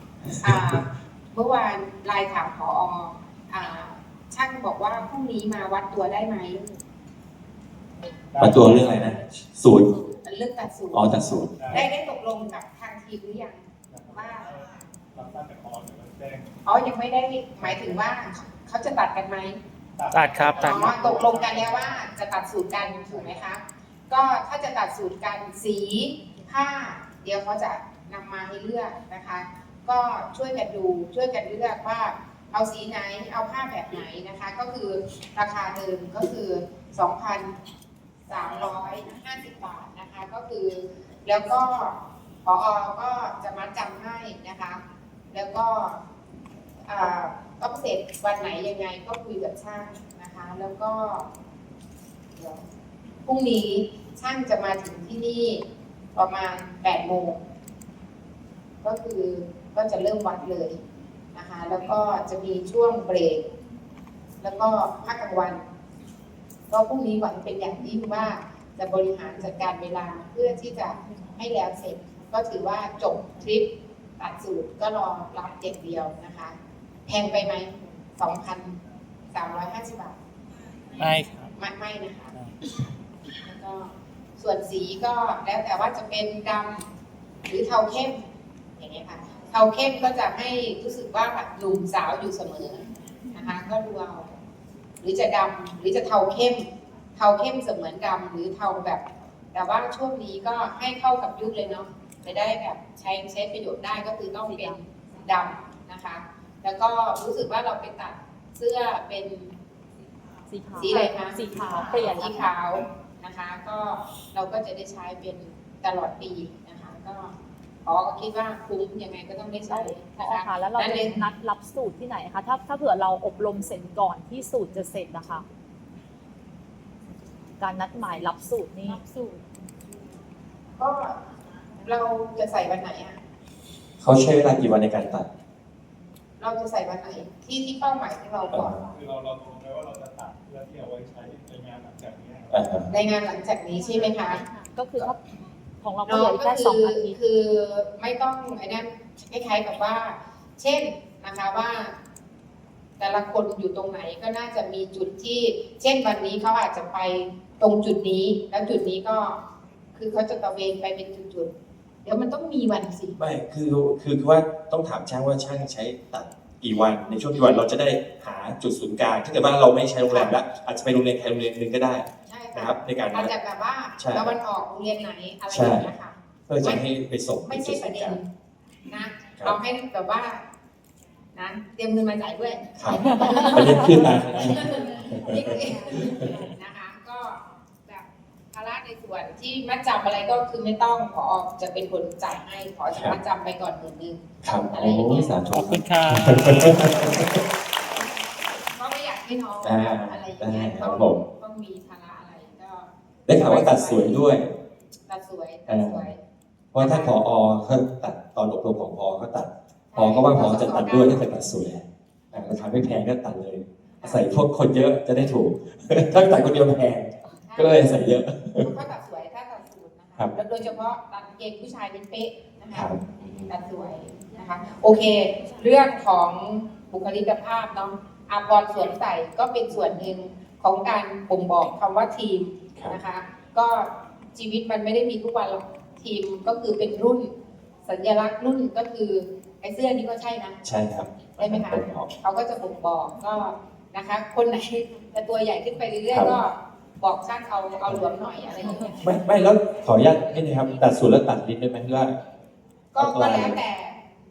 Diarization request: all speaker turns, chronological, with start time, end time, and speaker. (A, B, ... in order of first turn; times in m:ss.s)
0:00.4-0:06.7 A
0:00.5-0:00.8 B
0:08.3-0:08.9 C
0:08.4-0:09.9 B
0:10.2-0:13.6 A
0:10.9-0:11.8 B
0:13.9-0:16.5 C
0:14.1-0:14.5 A
0:16.6-0:19.6 A
0:17.6-0:18.0 C
0:20.0-0:22.1 C
0:20.1-0:20.8 D
0:20.5-0:37.6 A
0:22.9-0:23.5 C
0:38.3-0:44.8 A
0:45.3-0:46.0 A
0:46.9-0:51.3 A
0:52.4-0:52.6 A
0:53.2-0:55.6 A
0:56.2-0:57.4 A
0:58.8-1:00.8 A
1:01.4-1:03.4 A
1:04.4-1:05.6 A
1:06.7-1:16.6 A
1:17.1-1:18.8 A
1:19.3-1:20.2 A
1:21.0-1:21.5 D
1:21.6-1:22.3 A
1:23.4-1:26.9 A
1:27.5-1:28.2 A
1:28.8-1:34.3 A
1:35.0-1:49.6 A
1:44.5-1:44.8 E
1:50.5-1:52.4 E
1:50.8-2:01.2 A
1:59.7-2:05.5 E
2:07.6-2:09.4 E
2:10.8-2:11.2 A
2:11.8-2:13.2 A
2:14.0-2:15.3 B
2:16.4-2:18.8 A
2:18.5-2:18.9 B
2:18.9-2:22.6 C
2:22.5-2:22.9 B
2:22.9-2:24.4 A
2:23.7-2:27.2 E
2:26.1-2:32.0 A
2:33.0-2:39.4 A
2:40.0-2:41.5 A
2:42.0-2:43.2 A
2:43.2-2:53.3 B
2:47.3-2:47.7 A
2:50.0-2:50.4 A
2:52.3-2:56.8 A
2:54.0-2:54.3 B
2:55.5-2:55.9 B
2:56.5-2:58.2 B
2:57.5-2:58.3 A
2:58.8-3:00.4 A
3:01.3-3:15.4 A
3:02.8-3:06.4 B
3:14.4-3:17.4 B
3:15.5-3:16.5 D
3:16.6-3:18.0 A
3:18.7-3:24.3 A
3:19.6-3:21.2 B
3:23.3-3:24.5 B
3:25.1-3:26.2 A
3:25.7-3:26.1 B
3:26.7-3:38.7 B
3:26.8-3:27.2 A
3:29.9-3:31.3 A
3:34.0-3:34.3 A
3:37.3-3:37.9 A
3:38.6-3:42.9 A
3:42.7-3:43.5 B
3:43.5-3:57.3 A
3:57.8-4:00.6 A
4:00.6-4:02.1 B
4:01.4-4:09.1 A
4:09.0-4:12.2 B
4:12.9-4:14.0 A
4:13.0-4:13.6 B